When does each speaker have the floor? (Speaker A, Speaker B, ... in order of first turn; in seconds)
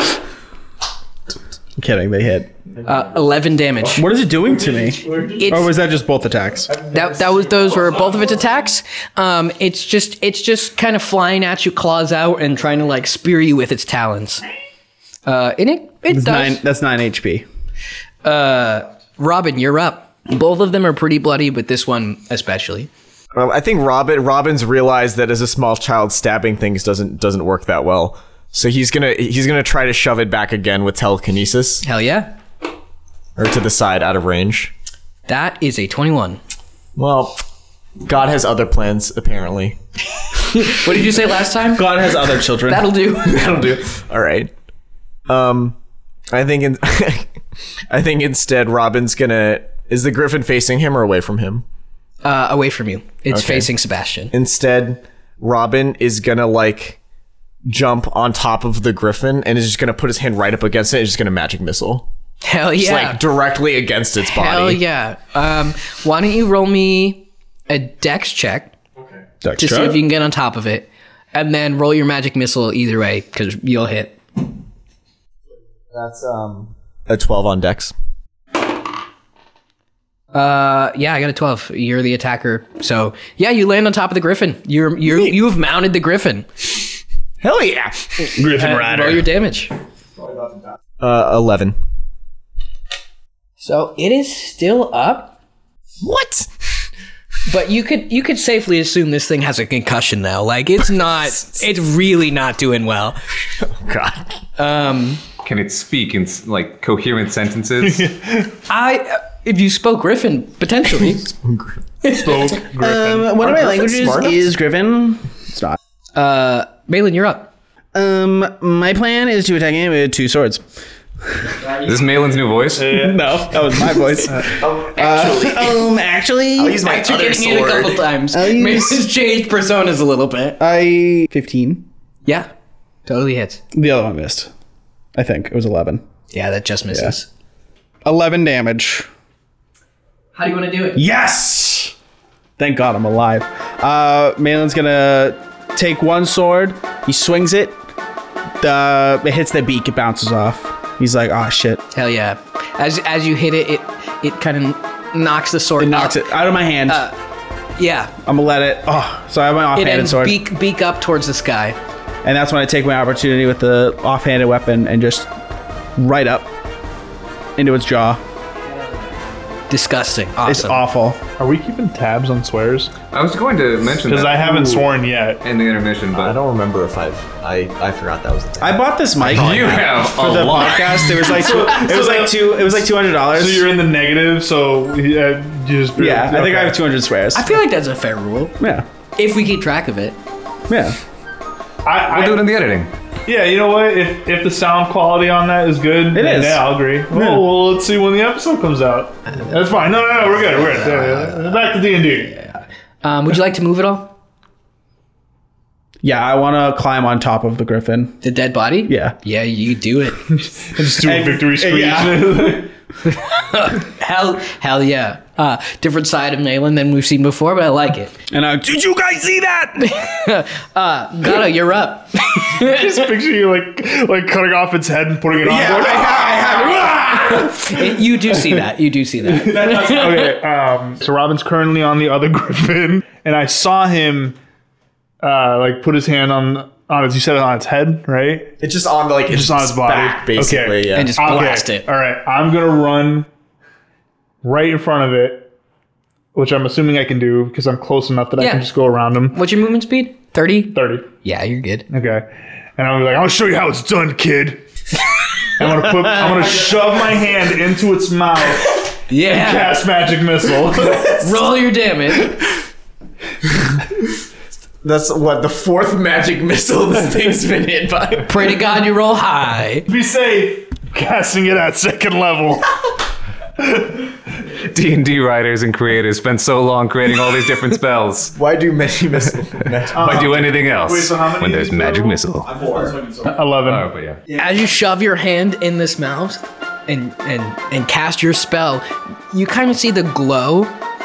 Speaker A: 1.8-2.5, 4.0-6.7, 16.1-17.4, 41.7-42.9, 69.4-70.0, 88.6-89.1, 112.6-115.8, 117.9-120.6, 122.9-126.8, 128.3-129.1, 130.6-131.9, 133.7-134.5, 135.1-136.0, 138.1-139.1, 140.9-141.9, 142.6-147.8, 148.6-151.8, 155.8-157.0, 158.2-160.4, 162.2-165.3, 165.9-166.5, 167.6-168.2, 170.4-171.2, 178.6-183.7, 186.0-187.6, 188.6-188.9, 190.7-191.0, 196.1-197.5, 206.0-208.2, 208.9-209.1, 211.0-212.6, 218.3-220.0, 225.4-227.4, 229.5-229.9, 282.6-283.3
Speaker B: 2.8-4.1, 5.3-5.7, 6.9-14.4, 15.3-16.6, 18.2-22.9, 31.8-32.3, 35.3-36.4, 40.5-42.0, 42.6-43.5, 52.2-54.3, 62.4-63.2, 64.2-68.7, 69.6-74.2, 80.3-86.5, 88.5-89.7, 93.6-95.4, 97.5-103.2, 104.6-105.2, 108.7-111.3, 112.0-112.5, 116.2-117.5, 126.8-130.6, 133.1-133.6, 136.3-137.3, 140.3-141.0, 151.9-156.3, 156.9-157.1, 157.8-158.1, 159.8-161.8, 169.7-170.8, 187.3-188.6, 189.2-190.2, 203.0-204.1, 208.2-210.2, 213.1-218.1, 219.8-223.0, 226.8-230.4, 240.9-241.9, 248.4-248.7, 249.3-251.9, 259.1-259.8, 261.2-262.4, 268.3-269.9, 284.4-290.7
Speaker C: 5.1-5.3, 23.3-31.9, 33.4-34.7, 37.0-37.4, 38.0-39.8, 43.1-44.5, 45.3-45.8, 46.3-47.4, 47.9-51.6, 53.3-53.7, 54.3-57.0, 57.7-62.1, 62.8-64.8, 75.9-77.9, 85.1-85.3, 87.4-88.3, 90.2-91.8, 96.0-96.5, 103.7-104.3, 111.1-111.8, 113.4-114.5, 124.4-125.9, 126.6-128.1, 176.1-180.1, 226.1-226.5, 238.6-241.2, 264.8-268.4, 278.4-280.4
Speaker D: 88.4-89.2, 107.8-108.5, 112.1-113.4, 122.8-124.5, 171.4-172.9, 174.1-175.4, 181.2-186.8, 191.8-192.5, 193.3-202.4, 210.6-212.7, 222.4-227.7, 229.4-234.4, 235.2-238.6, 239.3-243.3, 244.4-245.5, 246.3-249.4, 250.7-251.1, 251.9-254.6, 255.6-261.4, 269.9-272.9, 273.6-274.1, 279.9-283.9
Speaker E: 105.4-108.0, 121.8-123.0, 173.1-174.9, 175.4-176.4, 179.2-181.3, 192.1-192.9, 274.6-278.3, 280.0-282.6, 283.6-284.2